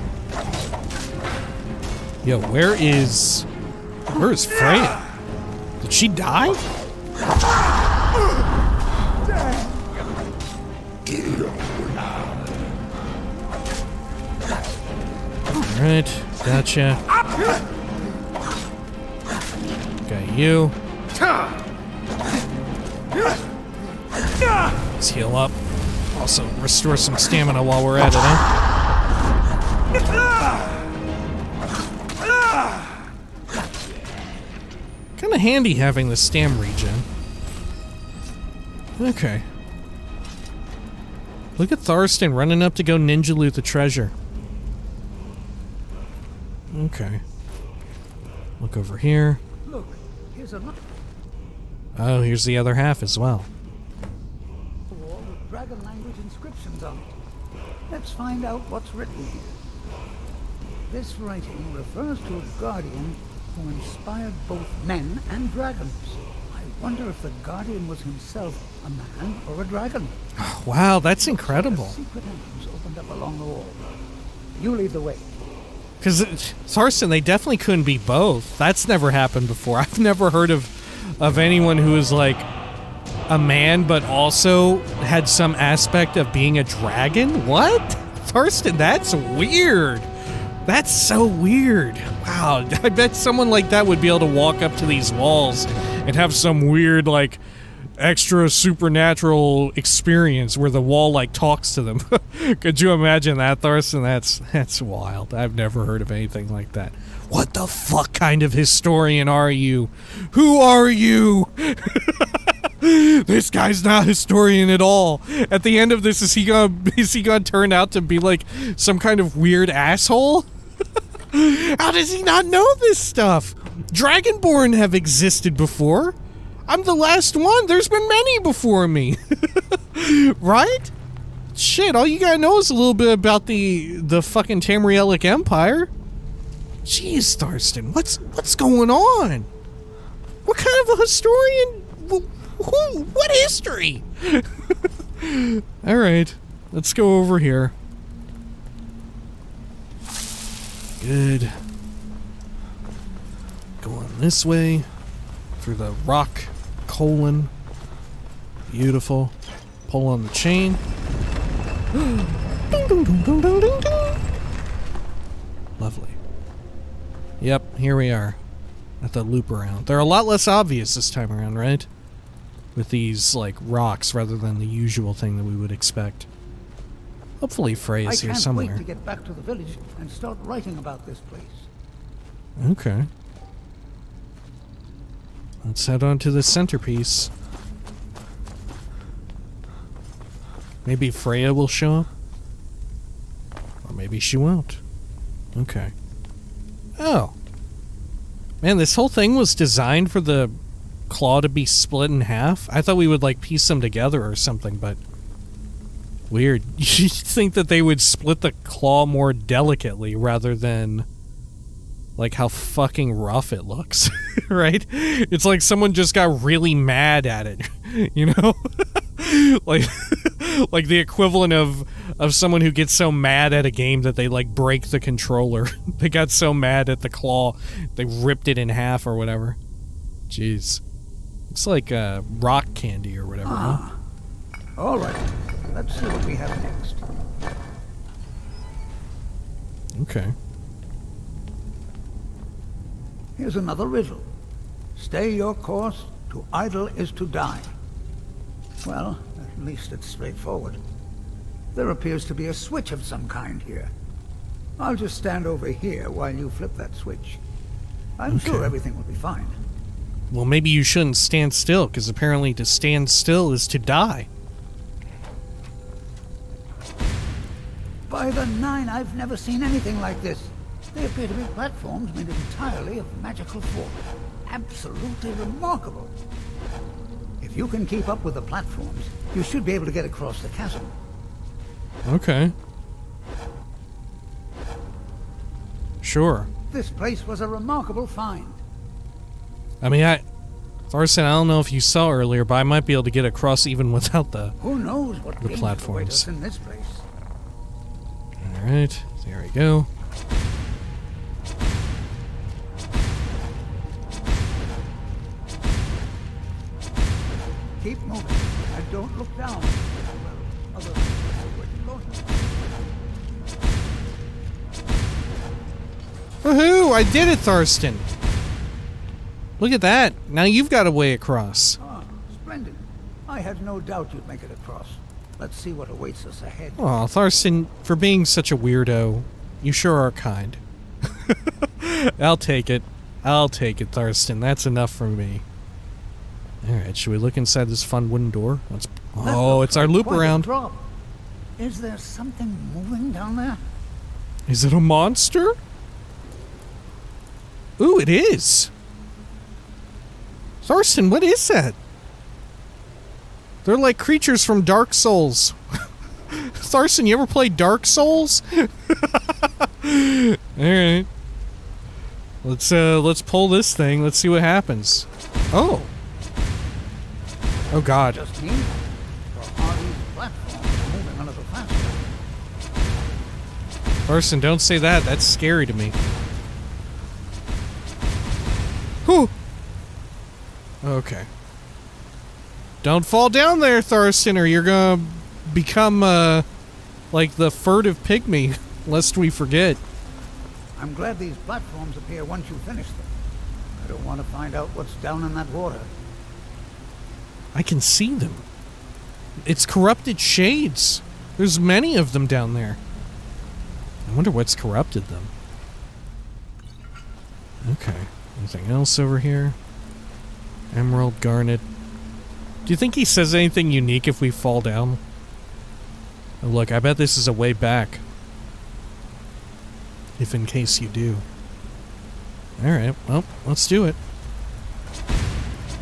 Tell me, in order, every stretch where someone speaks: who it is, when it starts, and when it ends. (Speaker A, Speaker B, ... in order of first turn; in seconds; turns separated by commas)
Speaker A: 2.2-3.5, Speaker A: 4.1-5.0, Speaker A: 5.8-6.6, Speaker A: 15.5-17.0, Speaker A: 20.1-20.8, Speaker A: 25.0-25.6, Speaker A: 26.1-28.4, Speaker A: 35.2-37.1, Speaker A: 39.0-39.5, Speaker A: 41.6-44.1, Speaker A: 46.7-47.2, Speaker A: 48.6-49.4, Speaker B: 49.6-50.8, Speaker A: 52.0-53.5, Speaker B: 54.9-57.2, Speaker B: 57.9-59.6, Speaker B: 60.9-70.2, Speaker A: 70.4-72.0, Speaker B: 71.1-73.8, Speaker B: 74.6-75.3, Speaker A: 76.0-82.5, Speaker A: 83.3-90.1, Speaker A: 90.7-120.5, Speaker A: 121.3-126.2, Speaker A: 126.7-130.9, Speaker A: 131.5-135.9, Speaker A: 136.8-139.5, Speaker A: 140.4-147.7, Speaker A: 151.0-151.6, Speaker A: 153.8-154.9, Speaker A: 155.6-157.5, Speaker A: 158.7-159.3, Speaker A: 159.9-160.8, Speaker A: 161.9-164.2, Speaker A: 165.8-166.2, Speaker A: 167.4-168.4, Speaker A: 169.0-171.9, Speaker A: 172.7-176.3, Speaker A: 177.4-178.8, Speaker B: 178.1-181.7, Speaker A: 182.6-183.1, Speaker A: 185.6-187.3, Speaker A: 190.8-192.1, Speaker A: 193.8-194.8, Speaker A: 195.6-195.9, Speaker A: 197.0-197.3, Speaker A: 198.6-200.6, Speaker A: 201.1-205.0, Speaker A: 206.3-211.1, Speaker A: 212.2-229.6, Speaker A: 230.3-230.8, Speaker A: 231.5-233.8, Speaker B: 233.4-234.0, Speaker B: 234.8-237.0, Speaker A: 239.9-240.3, Speaker B: 243.4-244.3, Speaker B: 245.0-247.7, Speaker B: 248.8-250.8, Speaker B: 251.7-253.9, Speaker B: 254.8-257.4, Speaker B: 258.2-259.6, Speaker A: 258.3-258.7, Speaker A: 260.3-264.3, Speaker B: 268.1-276.1, Speaker B: 277.4-280.9, Speaker A: 282.1-282.5, Speaker A: 286.0-286.5, Speaker B: 286.7-288.6, Speaker A: 289.8-290.2, Speaker A: 290.9-294.6, Speaker B: 294.6-297.1, Speaker A: 295.4-296.3, Speaker A: 298.4-299.9, Speaker B: 307.8-312.7, Speaker A: 316.4-318.1, Speaker A: 319.6-321.8, Speaker B: 321.8-326.9, Speaker A: 326.8-335.4, Speaker A: 336.6-340.5, Speaker B: 339.2-340.9, Speaker B: 341.6-343.6, Speaker A: 344.5-345.6, Speaker A: 347.8-348.7, Speaker A: 350.6-351.8, Speaker A: 353.6-355.6, Speaker A: 356.3-361.1, Speaker A: 362.4-365.9, Speaker A: 367.7-368.2, Speaker B: 368.0-372.1, Speaker A: 374.1-376.0, Speaker A: 379.1-379.3, Speaker A: 380.8-381.3, Speaker A: 382.8-386.4, Speaker A: 387.1-389.8, Speaker B: 390.8-393.1, Speaker B: 393.8-395.9, Speaker A: 397.5-398.4, Speaker A: 399.4-402.8, Speaker A: 404.1-405.3, Speaker A: 407.6-409.6, Speaker A: 410.7-411.6, Speaker A: 412.6-415.0, Speaker A: 416.4-418.0, Speaker A: 420.2-421.2, Speaker A: 422.6-424.0